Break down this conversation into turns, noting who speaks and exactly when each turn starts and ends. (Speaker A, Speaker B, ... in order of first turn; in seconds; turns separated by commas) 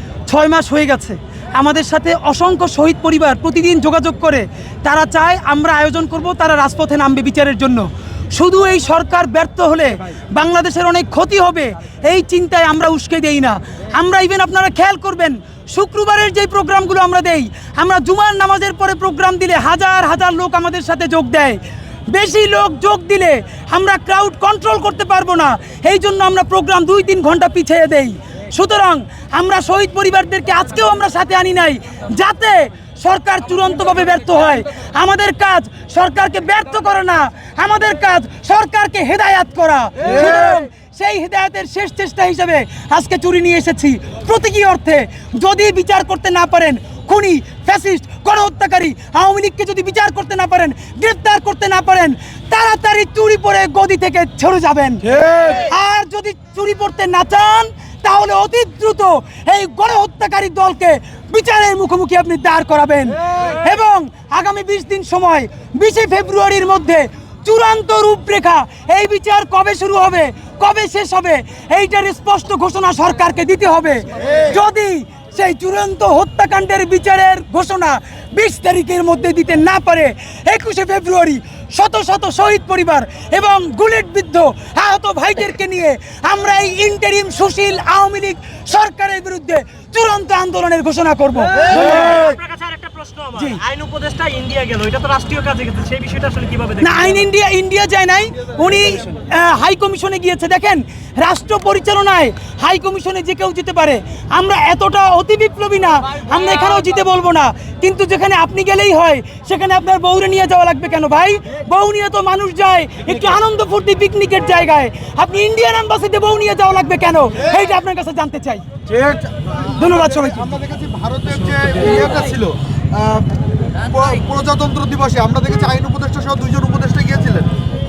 Speaker A: 0.3-92.0, Speaker B: 91.7-97.0, Speaker A: 93.3-93.6, Speaker A: 96.8-118.7, Speaker C: 118.9-119.4, Speaker A: 119.6-120.7, Speaker C: 120.6-123.3, Speaker C: 123.9-127.5